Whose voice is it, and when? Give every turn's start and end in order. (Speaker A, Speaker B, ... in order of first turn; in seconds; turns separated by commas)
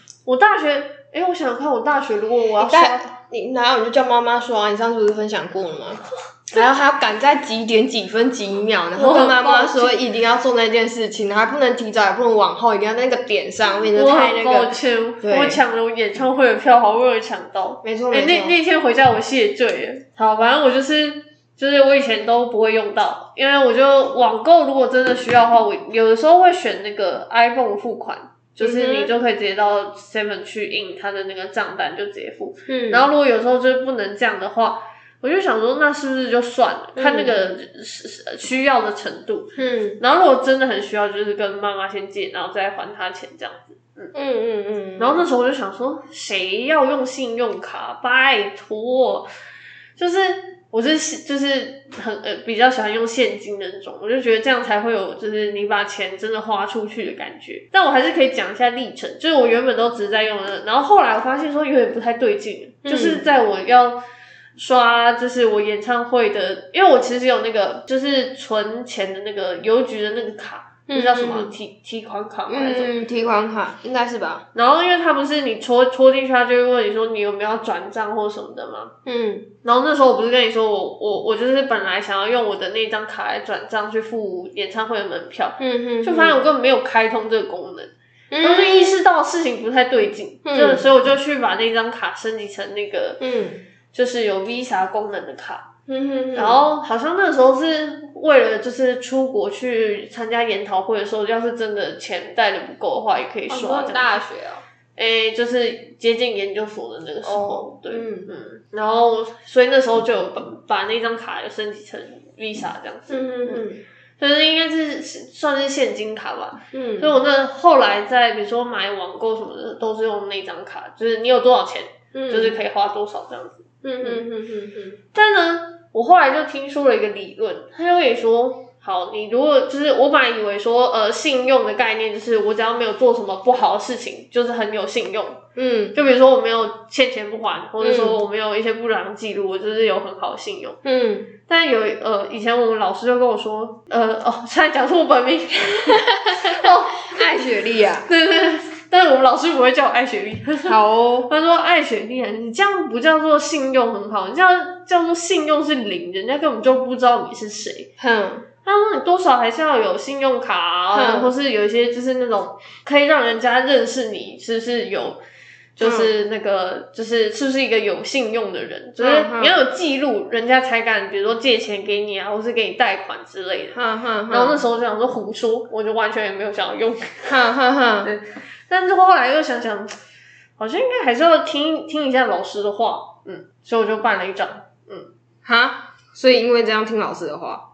Speaker A: 0.2-3.1, Speaker B: 2.6-15.6, Speaker A: 8.9-10.0, Speaker A: 13.9-44.1, Speaker B: 17.8-18.6, Speaker B: 28.6-29.1, Speaker B: 32.7-33.1, Speaker B: 37.0-37.4, Speaker B: 39.5-40.0, Speaker B: 44.1-45.2, Speaker A: 45.0-49.3, Speaker A: 50.0-64.0, Speaker B: 62.8-63.2, Speaker A: 64.5-72.9, Speaker B: 70.9-71.5, Speaker B: 72.5-74.4, Speaker A: 74.5-78.9, Speaker B: 79.0-79.5, Speaker A: 79.6-93.2, Speaker B: 85.6-86.4, Speaker B: 88.3-89.0, Speaker B: 90.4-90.9, Speaker B: 93.2-93.6, Speaker A: 93.9-95.7, Speaker B: 95.9-96.6, Speaker A: 96.3-104.1, Speaker B: 103.5-104.6, Speaker A: 105.0-113.6, Speaker B: 107.2-108.3, Speaker B: 113.1-113.8, Speaker A: 114.2-124.2, Speaker B: 116.7-117.1, Speaker B: 122.1-122.5, Speaker B: 123.8-125.0, Speaker A: 125.1-135.4, Speaker B: 135.6-136.0, Speaker A: 135.9-140.8, Speaker B: 137.8-138.2, Speaker B: 140.8-141.3, Speaker A: 141.5-147.1, Speaker B: 145.9-148.1, Speaker A: 148.0-157.9, Speaker B: 150.6-151.3, Speaker B: 158.0-158.5, Speaker A: 158.6-165.2, Speaker B: 160.9-161.3, Speaker A: 165.8-173.8, Speaker B: 165.8-166.1, Speaker B: 169.0-169.6, Speaker B: 173.7-174.6, Speaker A: 174.3-177.3, Speaker B: 177.3-178.1, Speaker A: 178.0-179.9, Speaker A: 180.6-185.1, Speaker B: 185.4-187.6